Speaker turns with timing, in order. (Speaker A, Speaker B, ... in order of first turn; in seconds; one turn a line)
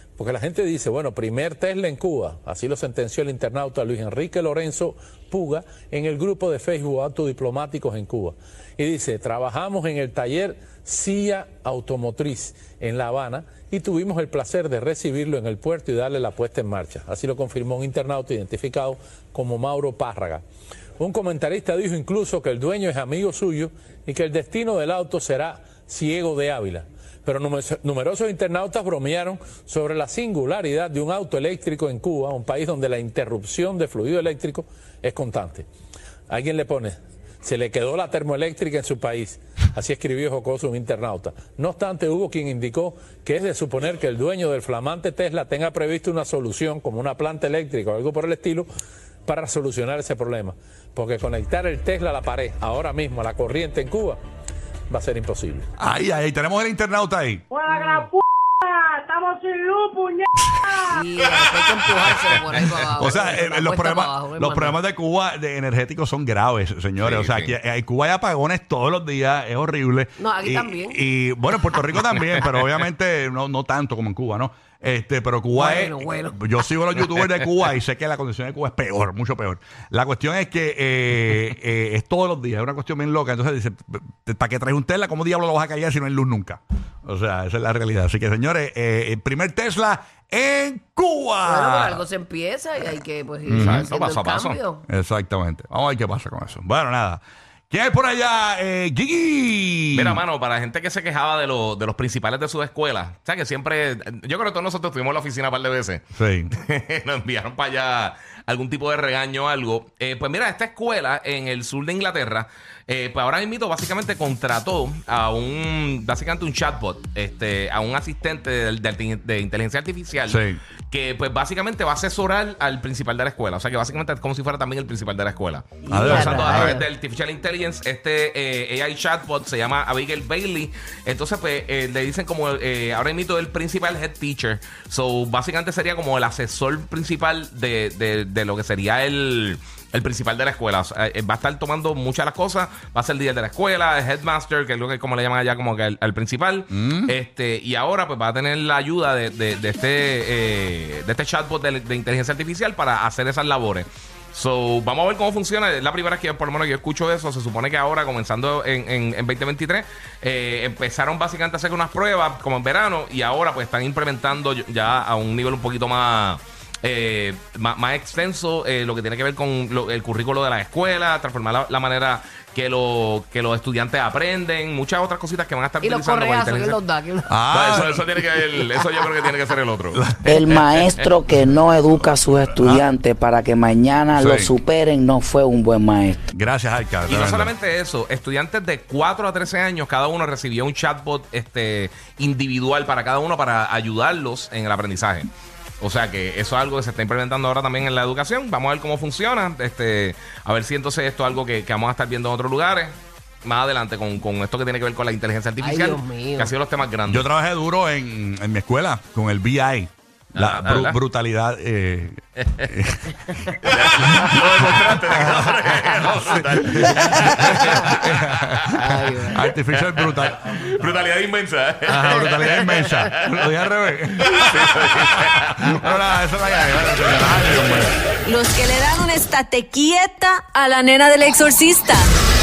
Speaker A: 0.2-20.4
Speaker A: 21.0-35.7
Speaker A: 36.3-48.7
Speaker A: 49.2-54.2
Speaker A: 54.9-55.7
Speaker B: 55.8-57.4
Speaker C: 57.5-61.0
Speaker B: 60.4-60.8
Speaker D: 60.9-64.8
Speaker B: 63.0-92.0
Speaker E: 67.0-67.5
Speaker D: 70.2-71.0
Speaker D: 75.5-76.4
Speaker D: 91.4-94.8
Speaker B: 93.5-93.8
Speaker E: 93.5-94.6
Speaker B: 94.9-100.2
Speaker E: 99.9-106.0
Speaker B: 106.2-106.5
Speaker E: 106.5-176.8
Speaker B: 120.2-120.6
Speaker D: 125.8-126.8
Speaker B: 125.9-126.8
Speaker B: 146.7-147.1
Speaker D: 175.8-177.3
Speaker B: 177.3-178.1
Speaker E: 177.5-181.1
Speaker D: 178.6-179.1
Speaker B: 179.9-180.6
Speaker F: 180.2-186.2
Speaker B: 182.5-182.8
Speaker B: 184.1-184.5
Speaker B: 186.3-187.5
Speaker E: 187.1-195.3
Speaker E: 195.8-207.3
Speaker D: 205.6-206.5
Speaker B: 207.1-220.4
Speaker E: 210.3-211.0
Speaker E: 212.4-212.7
Speaker E: 213.5-218.9
Speaker D: 218.8-219.5
Speaker E: 219.5-223.3
Speaker B: 221.9-227.9
Speaker E: 224.2-225.8
Speaker G: 228.2-232.1